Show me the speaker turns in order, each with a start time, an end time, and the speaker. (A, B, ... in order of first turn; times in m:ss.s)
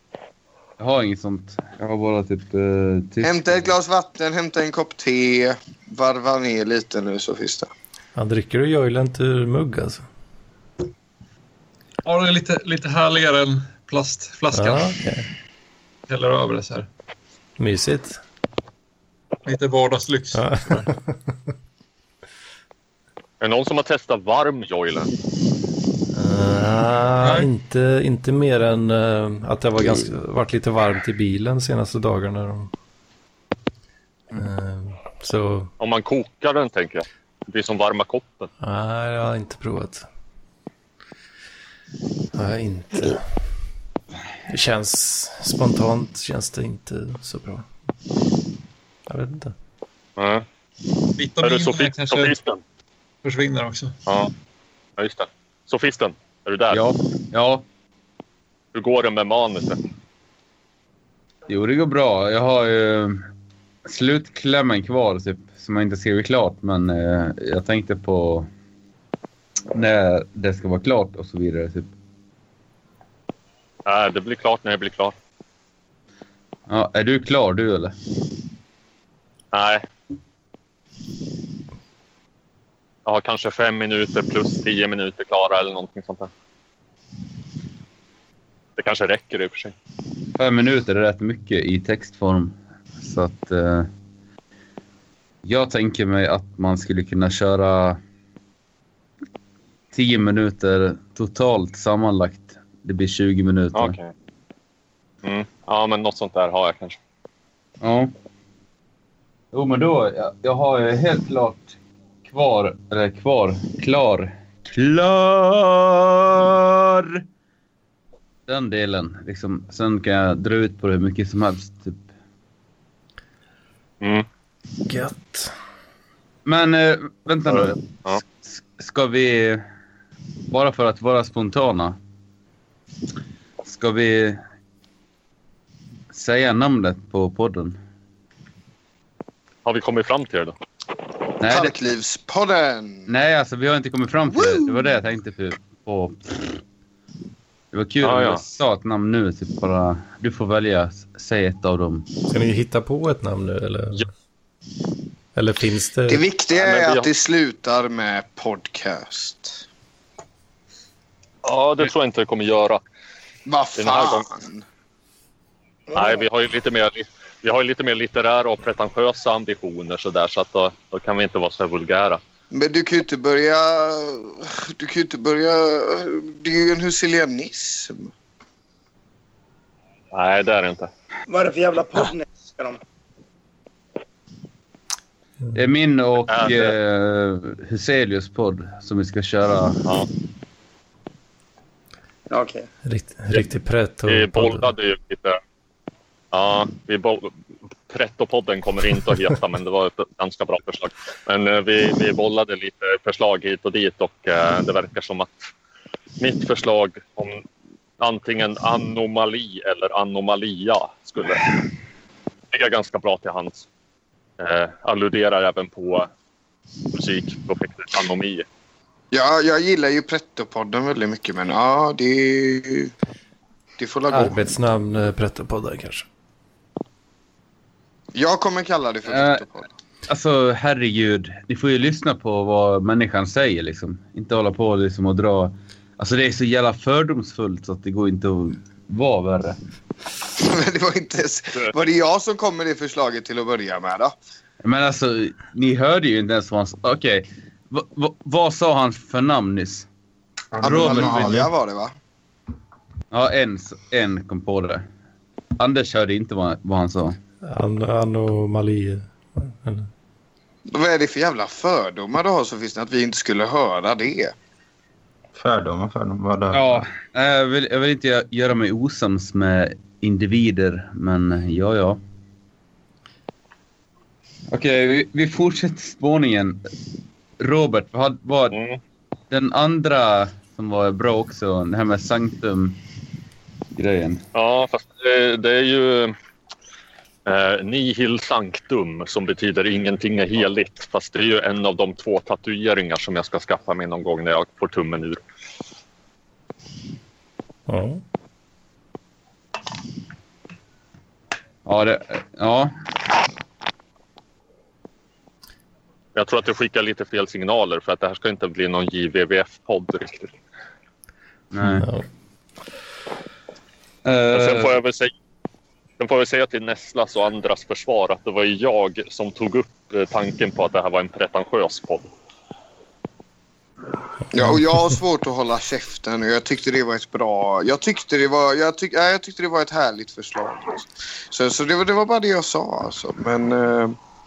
0:00.8-0:03.7 A
0:03.2-0:07.7 B
0:08.2-0:10.0 C
0:12.0-0:14.9 D
0:14.5-0:15.2 C
0:16.1-0:16.9 D
0:17.6-0:18.2 C
0:19.4-0:20.9 D
0:20.3-0:21.1 C
0:23.4-0:25.1 E
0:26.1-0:32.7 C
0:27.2-0:27.5 D
0:34.3-0:35.7 C
0:35.8-0:38.5 E
0:38.6-0:40.0 C
0:42.3-0:43.2 C
0:44.5-0:47.7 C
0:49.1-0:49.5 C
0:50.2-0:50.4 E
0:51.2-0:52.3 D
0:51.4-0:52.6 E
0:53.2-0:53.9 D
0:55.0-0:56.8 E
0:56.7-0:57.6 A
0:58.7-0:59.8 E
1:01.5-1:03.2 A
1:03.8-1:08.5 A
1:09.7-1:11.9 A
1:13.8-1:15.1 E
1:16.7-1:17.9 A
1:19.5-1:19.8 E
1:23.0-1:26.3 E
1:28.8-1:29.7 E
1:30.4-1:33.9 A
1:35.4-1:38.0 A
1:39.9-1:44.0 A
1:43.7-1:44.1 E
1:45.2-1:47.0 E
1:47.8-1:48.1 A
1:49.5-1:57.2 A
1:58.5-2:02.0 A
2:04.0-2:04.2 E
2:04.8-2:05.5 C
2:06.4-2:07.8 A
2:07.5-2:08.2 E
2:08.4-2:09.6 A
2:10.5-2:12.0 A
2:13.6-2:14.4 A
2:16.1-2:17.8 A
2:19.6-2:20.5 E
2:21.4-2:21.8 A
2:21.4-2:23.1 B
2:23.1-2:26.6 A
2:24.4-2:24.8 B
2:27.7-2:32.1 A
2:28.0-2:28.4 E
2:32.3-2:34.0 C
2:35.3-2:36.2 C
2:36.1-2:39.6 B
2:36.5-2:37.1 E
2:41.4-2:42.8 E
2:43.4-2:44.6 B
2:43.8-2:44.2 E
2:45.9-2:46.2 F
2:45.9-2:52.2 E
2:52.5-2:58.1 B
3:00.1-3:00.9 E
3:01.3-3:02.8 F
3:05.5-3:09.8 A
3:06.3-3:06.7 E
3:12.3-3:12.7 F
3:12.8-3:14.7 C
3:14.0-3:15.4 E
3:16.3-3:17.3 E
3:17.9-3:25.5 E
3:26.2-3:27.4 E
3:28.0-3:31.5 E
3:32.5-3:33.6 E
3:34.4-3:36.1 E
3:36.9-3:38.4 E
3:39.1-3:42.9 B
3:43.8-3:44.5 B
3:44.1-3:46.0 C
3:48.1-3:49.7 B
3:49.1-3:49.4 A
3:50.1-3:59.6 A
4:00.4-4:04.1 B
4:04.6-4:09.8 A
4:10.5-4:11.5 G
4:10.6-4:11.9 B
4:10.7-4:11.2 A
4:13.1-4:14.8 A
4:15.6-4:17.2 A
4:17.5-4:19.9 C
4:20.7-4:24.3 B
4:25.3-4:26.8 G
4:26.5-4:32.0 A
4:34.5-4:36.6 A
4:37.4-4:38.6 A
4:38.5-4:38.8 E
4:39.3-4:42.8 A
4:43.8-4:44.2 A
4:44.3-4:46.1 E
4:47.2-4:55.2 E
4:57.7-4:58.0 C
5:01.6-5:02.7 A
5:06.1-5:10.3 E
5:11.5-5:11.9 A
5:11.6-5:12.0 C
5:14.0-5:14.7 A
5:14.3-5:15.1 E
5:16.0-5:22.1 E
5:24.3-5:34.0 B